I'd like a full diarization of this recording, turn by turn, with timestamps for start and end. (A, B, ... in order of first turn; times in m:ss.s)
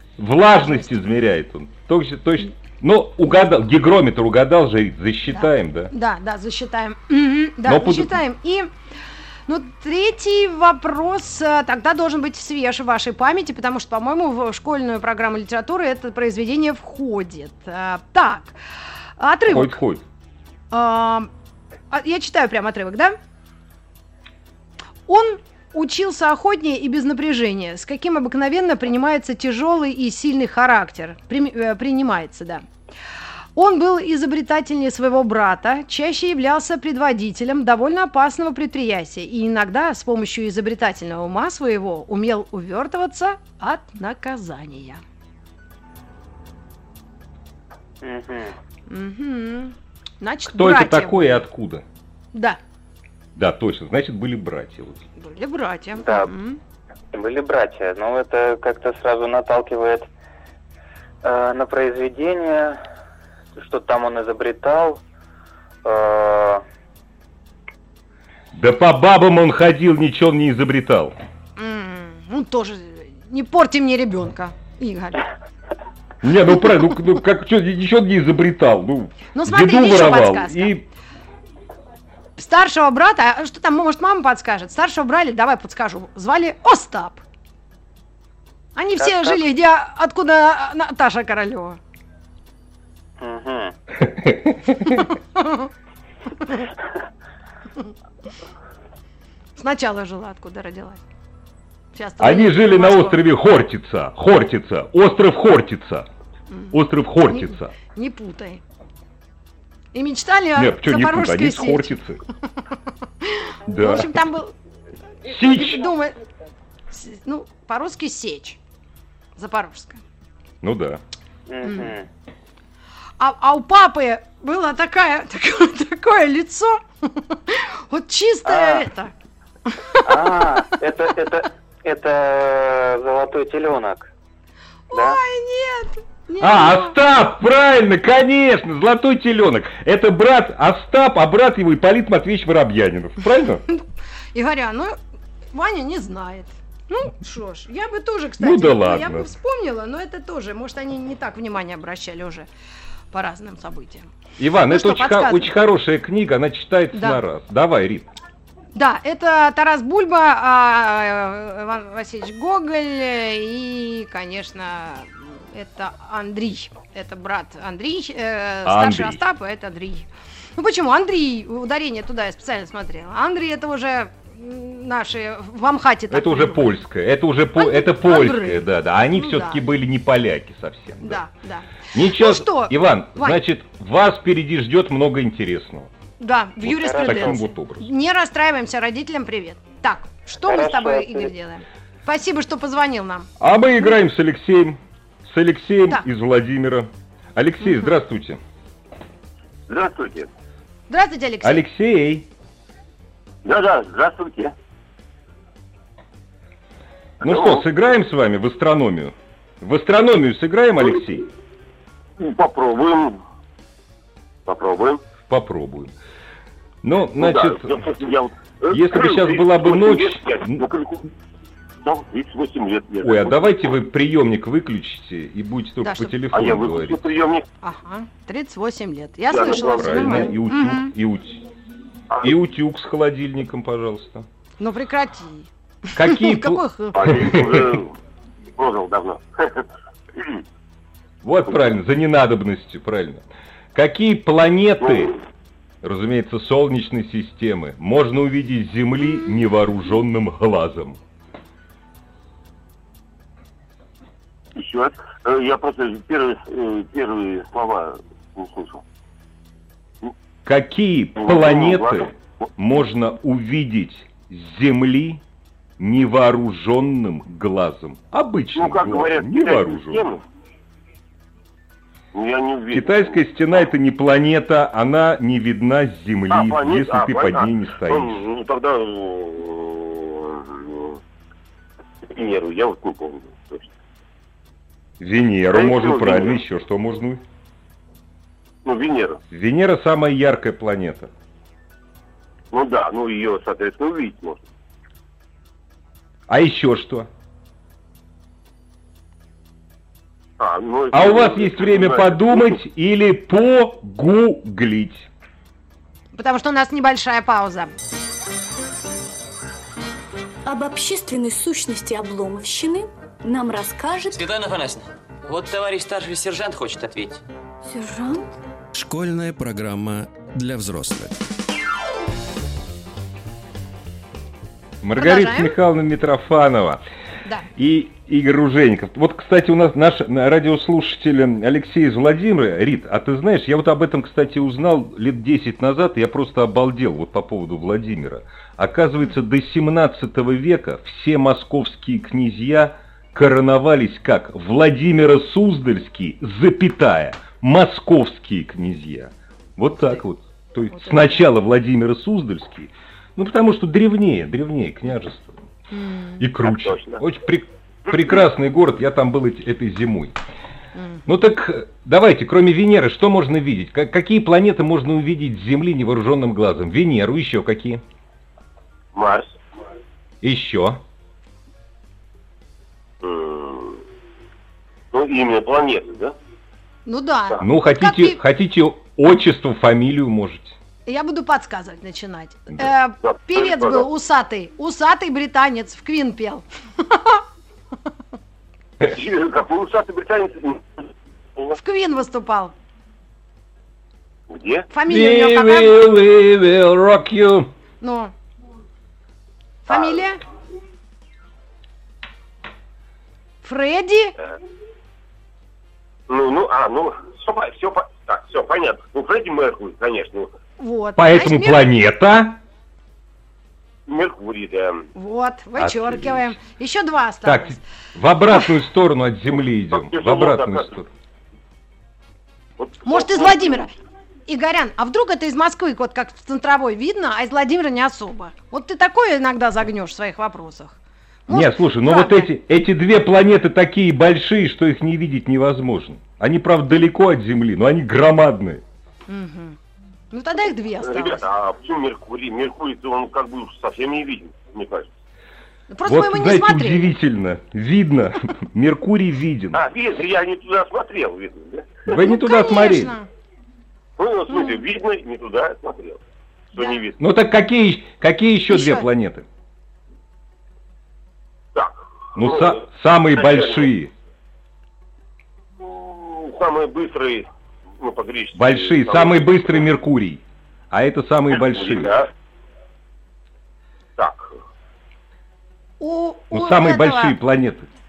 0:00.2-0:05.9 A
0:00.6-0:00.9 B
0:05.3-0:08.7 B
0:07.6-0:08.2 A
0:09.5-0:18.5 B
0:19.2-0:19.8 B
0:19.5-0:20.0 A
0:20.7-0:21.3 B
0:21.9-0:23.2 B
0:25.1-0:32.6 B
0:33.6-0:45.0 B
0:48.0-0:48.6 C
0:48.9-0:51.4 B
0:50.5-0:51.8 A
0:52.3-0:52.6 B
0:53.3-0:55.0 A
0:55.2-0:56.6 B
0:56.0-0:56.3 C
0:57.1-1:00.1 C
1:01.2-1:02.8 C
1:03.6-1:05.0 C
1:05.8-1:06.6 C
1:08.5-1:11.1 A
1:11.6-1:15.2 B
1:16.2-1:20.8 A
1:19.3-1:20.7 B
1:22.4-1:27.2 B
1:28.8-1:31.8 B
1:29.0-1:29.4 C
1:33.2-1:33.7 C
1:34.0-1:35.0 A
1:34.9-1:35.7 B
1:39.6-1:41.0 B
1:41.9-1:43.2 B
1:42.2-1:46.1 A
1:46.5-1:48.6 B
1:46.7-1:47.7 A
1:49.9-1:51.9 B
1:50.6-1:52.2 A
1:53.2-1:54.5 B
1:53.7-1:54.1 A
1:55.2-1:55.8 A
1:55.3-1:56.2 B
1:56.9-1:58.6 B
1:59.4-2:00.0 B
2:00.6-2:01.0 A
2:01.5-2:02.1 C
2:01.6-2:01.9 B
2:03.2-2:09.1 B
2:08.4-2:08.8 C
2:10.0-2:14.1 C
2:14.9-2:16.9 B
2:14.9-2:15.2 C
2:16.4-2:23.6 A
2:24.3-2:25.0 B
2:25.5-2:32.5 B
2:28.4-2:29.3 A
2:33.1-2:34.1 B
2:34.4-2:38.1 A
2:34.7-2:35.5 B
2:36.9-2:37.2 B
2:38.7-2:56.6 B
2:48.6-2:49.2 A
2:56.1-3:01.2 A
2:57.6-2:59.6 B
3:01.0-3:03.4 B
3:01.9-3:05.9 A
3:06.2-3:13.3 B
3:06.6-3:07.9 A
3:06.7-3:07.5 C
3:10.4-3:11.3 C
3:13.4-3:18.4 A
3:19.7-3:20.3 D
3:20.9-3:21.6 B
3:21.4-3:22.3 A
3:23.4-3:24.5 D
3:27.2-3:31.2 A
3:27.2-3:27.6 D
3:32.2-3:33.2 D
3:34.4-3:35.0 D
3:35.3-3:35.9 A
3:36.8-3:37.9 A
3:37.2-3:41.1 D
3:38.7-3:40.6 A
3:41.8-3:43.7 D
3:43.0-3:47.1 A
3:45.8-3:46.1 B
3:46.3-3:47.4 D
3:47.6-3:50.9 B
3:49.3-3:50.3 D
3:49.6-3:51.4 A
3:52.2-3:54.2 A
3:54.6-3:57.3 B
3:55.9-3:57.8 A
3:56.9-3:58.0 D
3:58.6-4:00.4 D
4:01.2-4:03.2 A
4:03.7-4:05.1 A
4:04.8-4:05.2 D
4:05.8-4:11.0 A
4:14.5-4:18.8 D
4:20.4-4:25.2 A
4:21.2-4:22.1 D
4:25.8-4:30.0 A
4:28.5-4:30.2 D
4:32.1-4:33.2 D
4:32.7-4:38.2 A
4:36.3-4:41.0 D
4:42.0-4:43.7 D
4:45.0-4:47.2 A
4:45.5-4:46.4 D
4:48.6-4:49.2 D
4:49.3-4:51.1 A
4:52.5-4:54.4 D
4:56.3-4:57.1 A
5:00.4-5:02.6 D
5:00.9-5:05.1 A
5:06.1-5:07.7 B
5:10.4-5:14.2 E
5:14.1-5:17.2 F
5:17.6-5:18.3 E
5:18.7-5:21.2 G
5:24.8-5:26.8 A
5:25.0-5:25.6 B
5:27.6-5:55.4 A
5:50.7-5:51.3 B
5:55.7-5:56.2 B
5:56.2-6:00.2 A
5:56.4-5:57.0 D
6:00.8-6:01.0 B
6:01.1-6:07.8 A
6:08.9-6:09.4 D
6:10.2-6:10.8 A
6:13.0-6:13.8 D
6:14.9-6:16.1 D
6:16.8-6:18.2 B
6:17.4-6:20.6 A
6:20.8-6:27.2 B
6:23.0-6:23.9 D
6:28.8-6:31.6 D
6:31.6-6:32.5 B
6:34.3-6:34.7 D
6:34.7-6:35.8 B
6:34.9-6:37.5 A
6:37.8-6:38.1 B
6:39.6-6:40.2 B
6:39.7-6:40.0 D
6:43.4-6:44.1 B
6:46.1-6:50.3 D
6:50.6-6:51.6 B
6:51.0-6:52.4 A
6:53.8-6:54.9 D
6:54.9-6:57.6 B
6:55.6-6:56.4 A
6:57.2-7:00.9 A
6:59.7-7:00.7 D
7:02.6-7:03.7 D
7:02.8-7:03.7 B
7:04.3-7:12.3 B
7:11.3-7:18.6 A
7:19.1-7:19.6 B
7:20.1-7:21.2 B
7:20.8-7:24.9 D
7:25.7-7:26.9 B
7:25.8-7:29.6 A
7:29.5-7:31.8 D
7:31.9-7:32.9 A
7:31.9-7:33.1 B
7:34.0-7:36.0 D
7:34.3-7:34.6 B
7:36.5-7:37.0 D
7:37.0-7:39.3 A
7:38.5-7:38.8 B
7:41.5-7:42.6 D
7:42.2-7:43.9 A
7:43.1-7:43.7 D
7:45.6-7:47.3 D
7:47.8-7:49.6 D
7:48.4-7:52.0 A
7:51.3-7:52.1 D
7:54.0-7:54.4 D
7:55.8-7:57.2 B
7:56.3-7:57.7 A